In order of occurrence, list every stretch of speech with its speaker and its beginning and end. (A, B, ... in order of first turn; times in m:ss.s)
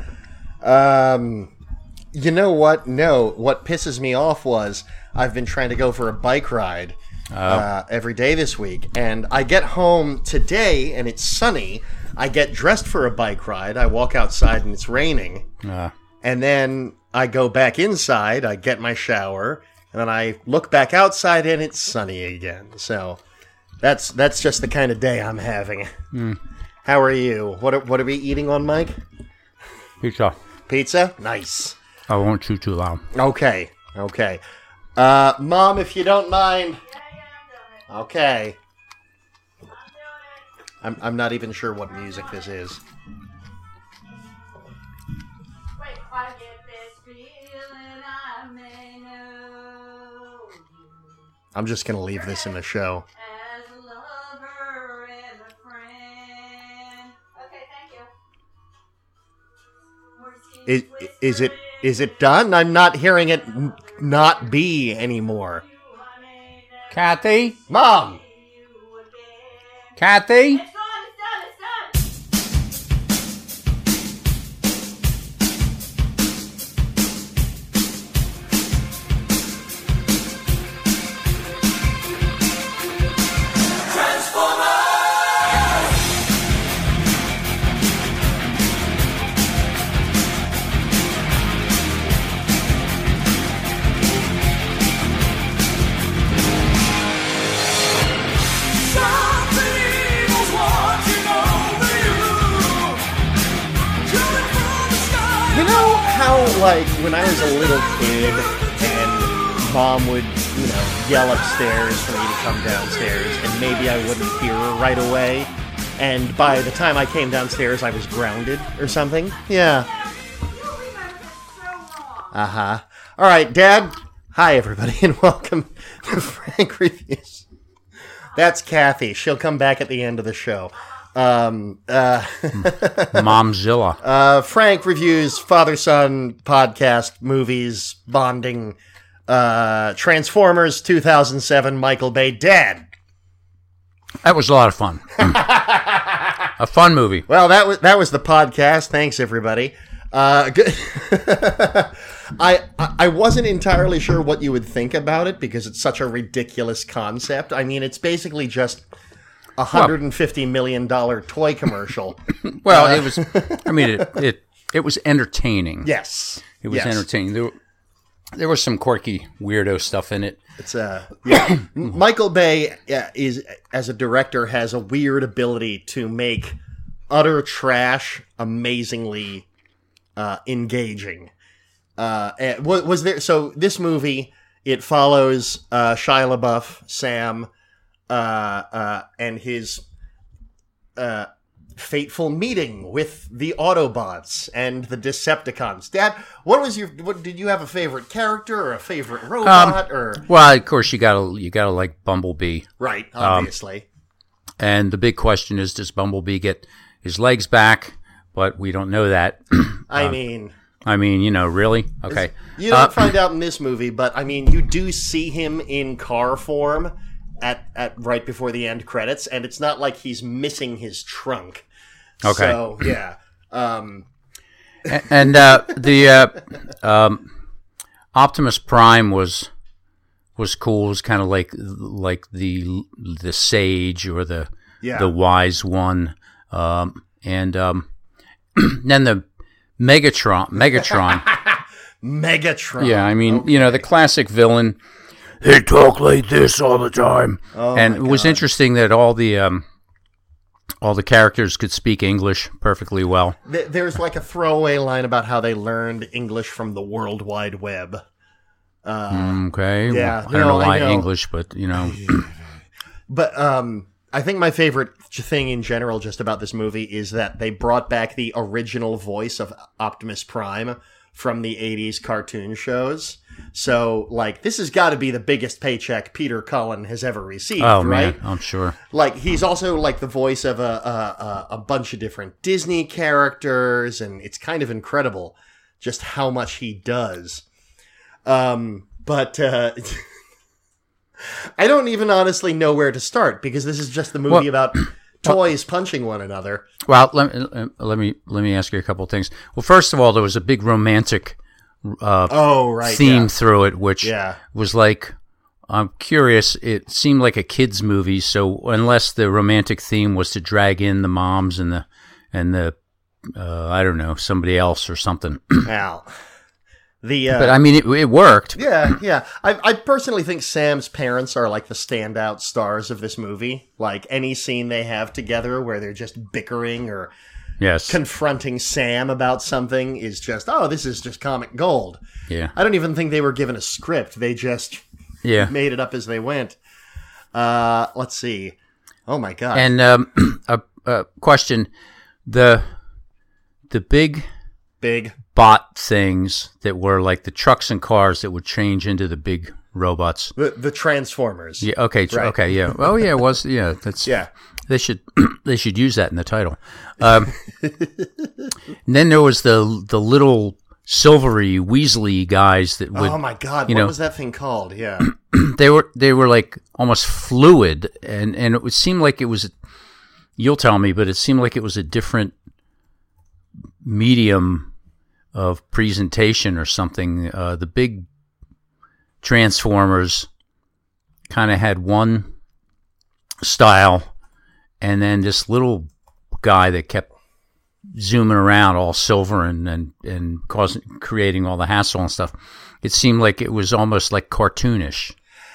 0:00.6-0:01.5 A
0:02.1-0:15.5 A
0:07.3-0:07.7 B
0:15.6-0:15.9 B
0:16.2-0:23.2 A
0:23.8-0:25.9 A
0:26.1-0:26.4 B
0:26.8-0:29.0 A
0:30.0-0:30.4 B
0:30.7-0:31.8 A
0:32.1-0:33.1 B
0:33.1-0:34.4 A
0:35.0-0:36.8 A
0:36.8-0:37.9 C
0:37.9-0:38.6 A
0:39.7-0:40.5 C
0:40.8-0:42.8 A
0:41.9-0:42.5 C
0:45.8-0:51.2 C
0:51.5-0:53.0 A
0:52.2-0:52.6 C
0:53.2-0:58.1 C
1:00.1-1:12.0 C
1:00.7-1:05.6 A
1:06.9-1:07.6 B
1:07.7-1:08.2 A
1:10.0-1:10.6 B
1:39.0-1:42.9 C
1:44.2-1:45.5 C
1:45.5-1:59.9 A
1:51.5-1:55.5 C
1:56.4-1:57.0 C
1:57.7-2:02.4 C
2:02.3-2:07.4 A
2:08.4-2:13.4 A
2:12.6-2:14.0 B
2:14.0-2:18.8 A
2:19.3-2:22.9 A
2:24.2-2:25.4 B
2:25.2-2:26.5 A
2:26.6-2:27.3 B
2:27.3-2:38.8 A
2:39.6-2:44.2 A
2:42.4-2:45.9 B
2:45.8-2:47.0 A
2:46.6-2:47.6 B
2:48.4-2:50.4 B
2:50.6-2:56.6 A
2:57.1-2:59.5 A
3:00.2-3:01.3 A
3:02.0-3:07.5 A
3:08.1-3:09.8 A
3:11.0-3:20.2 A
3:19.4-3:22.7 B
3:22.8-3:23.8 A
3:23.2-3:23.5 B
3:24.6-3:30.2 B
3:29.9-3:30.6 A
3:30.8-3:33.1 B
3:32.1-3:41.6 A
3:42.2-3:42.6 B
3:42.2-3:44.1 A
3:44.9-3:47.3 B
3:48.1-3:49.5 B
3:50.4-3:57.9 B
3:54.8-3:55.1 A
3:58.6-3:59.2 B
3:59.8-4:01.3 B
4:00.9-4:03.8 A
4:02.8-4:04.8 B
4:05.4-4:09.7 B
4:07.5-4:08.4 A
4:10.8-4:13.4 B
4:13.4-4:18.0 A
4:18.8-4:21.1 A
4:19.1-4:22.2 B
4:21.7-4:22.3 A
4:23.1-4:38.2 A
4:37.6-4:38.8 B
4:38.9-4:47.4 A
4:48.2-4:50.1 A
4:51.2-4:56.7 A
4:54.3-4:54.9 B
4:56.9-5:05.1 B
5:02.3-5:03.3 A
5:04.0-5:04.4 A
5:05.7-5:15.7 B
5:15.6-5:16.1 A
5:17.0-5:17.6 A
5:17.3-5:18.6 B
5:18.6-5:27.1 A
5:27.6-5:28.0 B
5:27.9-5:32.0 A
5:32.3-5:32.5 B
5:32.6-5:34.8 A
5:35.2-5:35.5 B
5:35.4-5:36.6 A
5:37.3-5:38.6 A
5:39.1-5:39.7 A
5:39.5-5:41.7 B
5:42.3-5:42.8 B
5:43.7-5:44.3 B
5:44.8-5:45.2 A
5:45.3-5:50.3 B
5:50.4-5:52.4 A
5:51.6-5:54.2 B
5:54.7-5:57.3 B
5:57.5-5:58.5 A
5:58.9-6:03.9 B
6:03.0-6:05.1 A
6:05.0-6:09.5 B
6:10.4-6:12.3 B
6:13.8-6:14.7 B
6:15.3-6:18.1 B
6:19.2-6:20.3 B
6:21.3-6:22.3 B
6:23.4-6:24.1 B
6:24.8-6:25.9 B
6:26.4-6:27.1 B
6:27.9-6:35.2 B